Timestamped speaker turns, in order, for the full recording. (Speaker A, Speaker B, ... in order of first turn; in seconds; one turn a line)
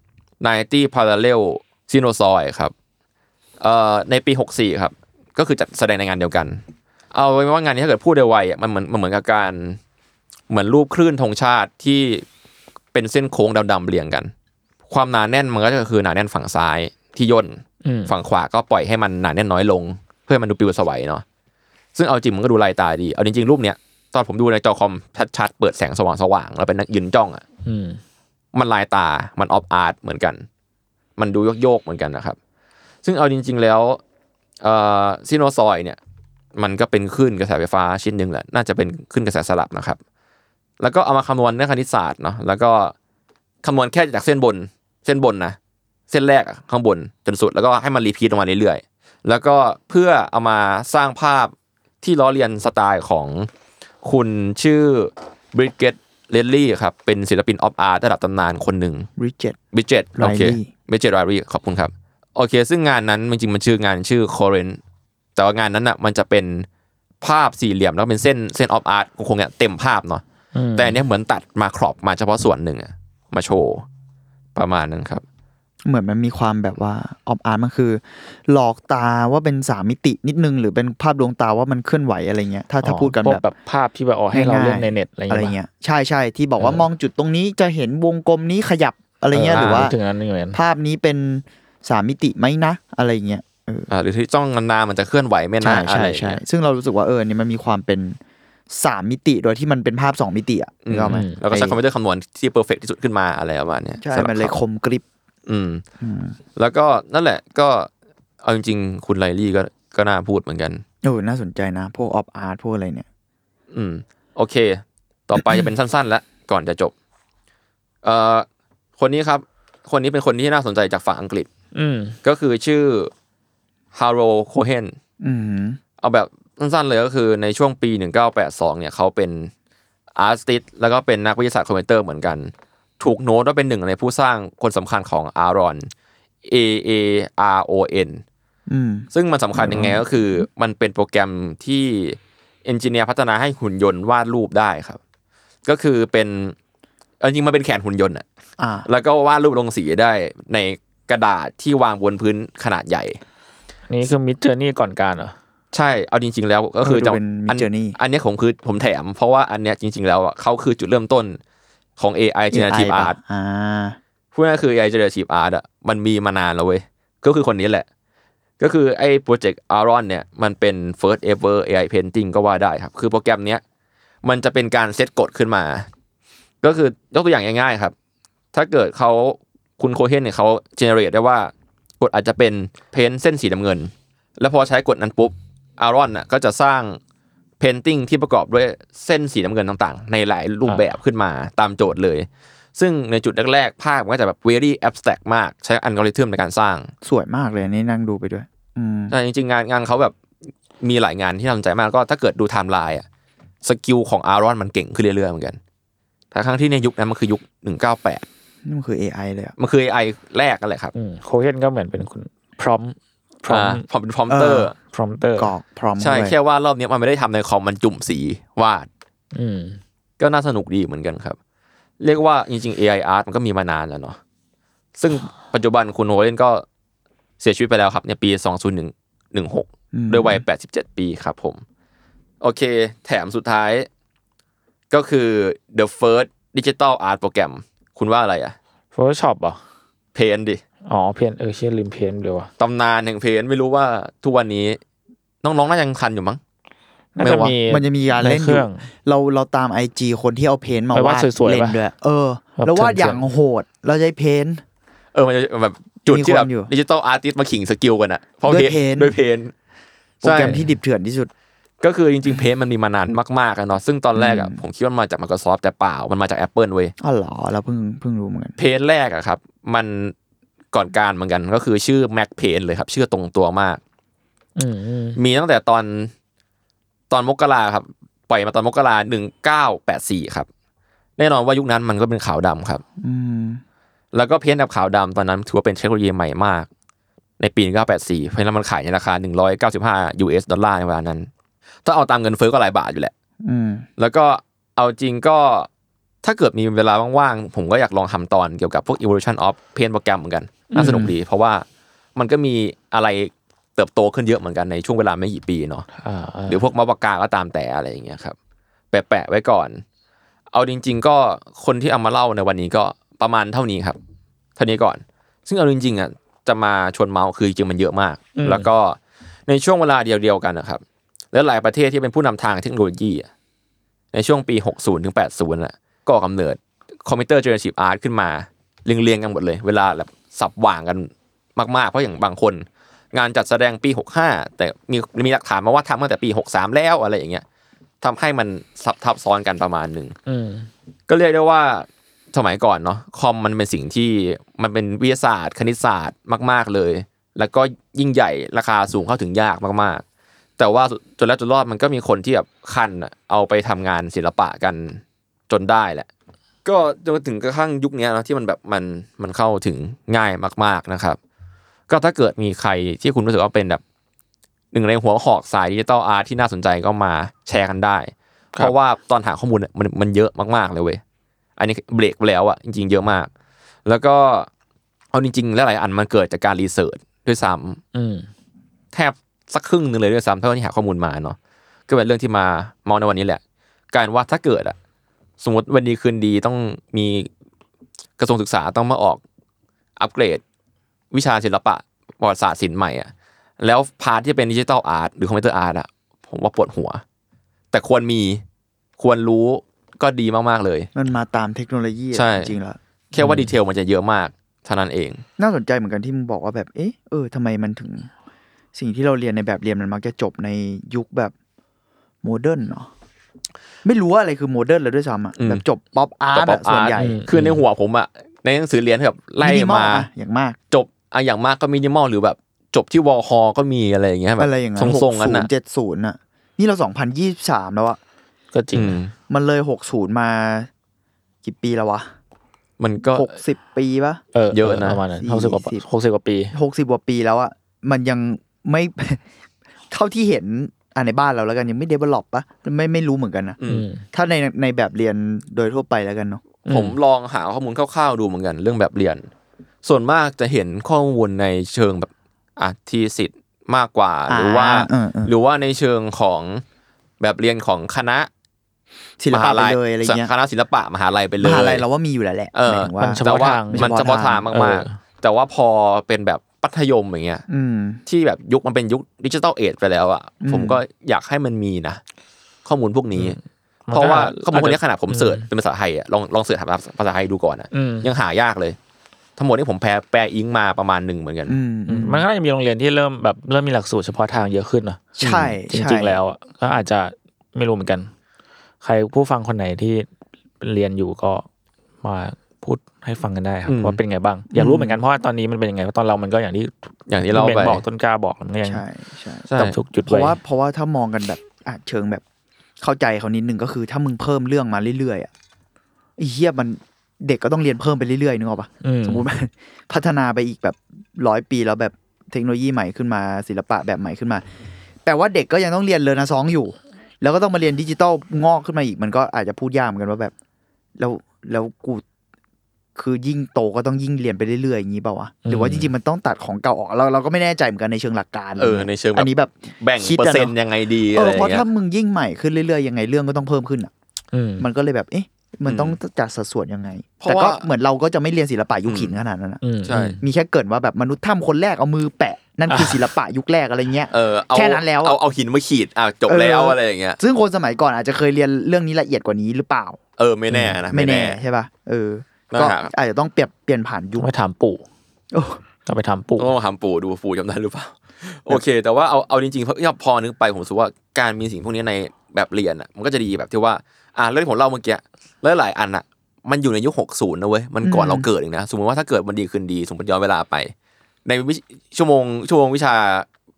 Speaker A: 0.4-2.7
Speaker A: 3.6-6.6
Speaker A: 7.1-9.8
Speaker A: 10.5-12.2
Speaker A: 12.9-14.3
Speaker A: 14.9-21.2
Speaker B: 17.8-18.1
Speaker A: 21.9-27.4
Speaker B: 27.6-28.0
Speaker A: 28.5-30.4
Speaker A: 31.2-32.4
Speaker A: 33.0-34.0
Speaker A: 34.6-36.0
Speaker A: 36.5-40.0
Speaker A: 40.8-42.9
Speaker A: 43.6-45.6
Speaker A: 46.1-53.5
Speaker A: 54.0-59.1
Speaker C: 59.2-59.6
Speaker A: 59.7-64.8
Speaker C: 60.2-60.7
Speaker A: 65.3-66.7
Speaker A: 67.2-70.2
Speaker B: 70.5-71.0
Speaker A: 70.8-73.8
Speaker A: 74.5-75.2
Speaker C: 75.8-83.4
Speaker B: 82.8-85.5
Speaker C: 84.3-89.9
Speaker B: 86.6-86.8
Speaker B: 89.3-90.6
Speaker C: 90.5-93.9
Speaker A: 93.9-96.4
Speaker C: 95.6-98.2
Speaker C: 98.7-101.8
Speaker A: 100.8-104.5
Speaker B: 101.1-101.4
Speaker C: 104.0-105.0
Speaker A: 105.5-105.8
Speaker C: 106.0-106.4
Speaker A: 106.5-107.9
Speaker A: 108.4-110.8
Speaker C: 111.0-113.0
Speaker A: 113.7-116.9
Speaker A: 118.0-118.5
Speaker A: 119.0-121.5
Speaker B: 121.7-122.2
Speaker A: 122.2-123.1
Speaker A: 123.9-125.0
Speaker C: 125.2-125.8
Speaker A: 126.0-129.5
Speaker A: 130.2-135.9
Speaker A: 136.4-138.2
Speaker C: 138.7-140.0
Speaker A: 139.1-145.0
Speaker A: 145.7-146.6
Speaker A: 147.2-148.2
Speaker C: 148.6-148.9
Speaker A: 148.8-153.2
Speaker B: 153.9-155.3
Speaker A: 155.7-161.4
Speaker C: 156.8-158.0
Speaker A: 162.0-163.2
Speaker C: 162.5-164.0
Speaker A: 164.3-167.9
Speaker A: 168.6-173.6
Speaker A: 174.2-175.9
Speaker A: 176.6-177.9
Speaker A: 178.5-187.0
Speaker A: 187.6-196.9
Speaker C: 197.0-199.1
Speaker A: 199.1-200.1
Speaker A: 200.8-203.0
Speaker A: 203.6-205.6
Speaker A: 206.3-208.2
Speaker C: 208.6-209.5
Speaker A: 209.6-210.9
Speaker B: 210.9-213.8
Speaker A: 213.5-214.7
Speaker C: 214.3-214.7
Speaker B: 214.9-215.5
Speaker C: 215.4-216.3
Speaker A: 216.0-218.9
Speaker B: 219.3-219.8
Speaker A: 220.2-221.4
Speaker A: 222.0-224.2
Speaker A: 225.0-226.6
Speaker A: 227.4-231.6
Speaker C: 229.9-230.4
Speaker A: 232.4-233.9
Speaker A: 234.9-238.6
Speaker B: 238.9-239.6
Speaker A: 240.1-240.6
Speaker B: 240.9-242.5
Speaker A: 242.6-244.8
Speaker A: 245.4-246.4
Speaker B: 247.2-248.9
Speaker A: 247.2-247.5
Speaker C: 247.7-254.6
Speaker B: 250.9-251.8
Speaker B: 252.6-253.2
Speaker A: 255.1-259.5
Speaker C: 256.1-256.7
Speaker C: 258.4-259.1
Speaker A: 260.2-260.6
Speaker C: 260.2-261.3
Speaker A: 261.8-266.9
Speaker C: 264.1-264.6
Speaker C: 267.0-268.6
Speaker A: 268.6-270.1
Speaker A: 270.7-273.8
Speaker B: 274.6-275.2
Speaker A: 275.2-276.1
Speaker A: 277.1-280.5
Speaker A: 281.2-282.8
Speaker C: 283.0-283.6
Speaker A: 284.1-286.7
Speaker A: 287.4-291.3
Speaker A: 291.8-293.1
Speaker C: 293.4-293.9
Speaker A: 294.0-295.7
Speaker A: 296.2-301.6
Speaker B: 300.7-301.1
Speaker C: 300.8-301.1
Speaker A: 302.1-305.9
Speaker B: 306.0-306.6
Speaker A: 306.5-308.4
Speaker A: 308.9-309.8
Speaker A: 310.5-314.0
Speaker A: 314.6-323.3
Speaker B: 318.4-318.7
Speaker A: 324.1-337.4
Speaker A: 338.0-340.1
Speaker B: 340.3-340.7
Speaker A: 341.1-350.0
Speaker A: 350.6-356.1
Speaker A: 356.6-361.2
Speaker A: 361.9-363.8
Speaker A: 364.7-371.0
Speaker A: 371.6-373.3
Speaker A: 373.8-374.5
Speaker A: 375.1-377.8
Speaker B: 377.9-378.3
Speaker A: 378.9-381.4
Speaker A: 381.9-384.8
Speaker A: 385.4-387.3
Speaker A: 388.2-389.2
Speaker A: 390.0-390.4
Speaker A: 391.1-397.0
Speaker A: 397.7-398.4
Speaker A: 399.0-400.9
Speaker C: 400.9-402.8
Speaker A: 402.1-402.5
Speaker A: 403.1-405.2
Speaker B: 403.2-403.5
Speaker C: 405.4-408.1
Speaker C: 408.7-411.3
Speaker C: 412.2-412.9
Speaker C: 413.8-417.2
Speaker A: 415.4-415.6
Speaker A: 416.3-420.1
Speaker B: 416.9-417.6
Speaker C: 419.4-420.6
Speaker A: 420.7-425.5
Speaker C: 424.4-428.0
Speaker B: 428.5-429.0
Speaker A: 428.7-429.1
Speaker C: 429.3-430.7
Speaker C: 431.4-432.1
Speaker A: 432.8-433.3
Speaker C: 433.1-434.2
Speaker B: 434.3-436.5
Speaker A: 434.5-435.0
Speaker C: 435.2-435.8
Speaker C: 436.5-439.2
Speaker C: 439.9-443.6
Speaker A: 443.6-443.9
Speaker B: 443.7-444.0
Speaker C: 444.1-446.4
Speaker B: 446.7-446.9
Speaker A: 446.7-449.3
Speaker A: 449.8-456.6
Speaker C: 454.3-455.3
Speaker A: 457.2-458.3
Speaker C: 459.2-460.3
Speaker A: 459.3-461.8
Speaker C: 461.4-464.4
Speaker A: 462.5-467.4
Speaker B: 463.0-464.9
Speaker C: 467.5-468.0
Speaker A: 468.1-472.0
Speaker C: 470.4-470.8
Speaker A: 472.6-473.4
Speaker B: 473.2-475.4
Speaker A: 473.9-478.8
Speaker B: 477.7-478.1
Speaker A: 479.4-481.6
Speaker C: 481.5-482.2
Speaker B: 481.9-488.1
Speaker C: 485.2-486.2
Speaker A: 485.2-485.6
Speaker B: 488.8-490.1
Speaker B: 490.6-491.4
Speaker B: 492.0-498.8
Speaker A: 493.7-494.0
Speaker C: 494.5-495.0
Speaker A: 497.1-497.8
Speaker C: 498.6-499.5
Speaker A: 499.5-499.8
Speaker B: 499.6-500.4
Speaker C: 500.0-502.2
Speaker C: 502.8-505.3
Speaker C: 506.2-514.4
Speaker B: 508.8-509.2
Speaker C: 515.0-520.3
Speaker C: 521.0-522.0
Speaker C: 523.0-530.5
Speaker B: 525.5-525.9
Speaker A: 528.6-531.6
Speaker C: 531.1-533.9
Speaker B: 534.3-534.7
Speaker C: 534.6-539.6
Speaker A: 535.6-536.0
Speaker A: 537.2-537.7
Speaker A: 538.9-539.2
Speaker B: 539.6-540.2
Speaker A: 539.8-540.2
Speaker C: 540.2-545.2
Speaker B: 542.7-543.0
Speaker A: 544.1-547.2
Speaker C: 546.3-550.0
Speaker A: 550.2-551.4
Speaker B: 550.5-550.8
Speaker C: 550.9-554.3
Speaker A: 552.5-552.9
Speaker B: 554.2-554.8
Speaker C: 555.3-555.6
Speaker B: 555.9-556.5
Speaker A: 556.4-570.7
Speaker C: 567.8-568.3
Speaker A: 571.2-573.2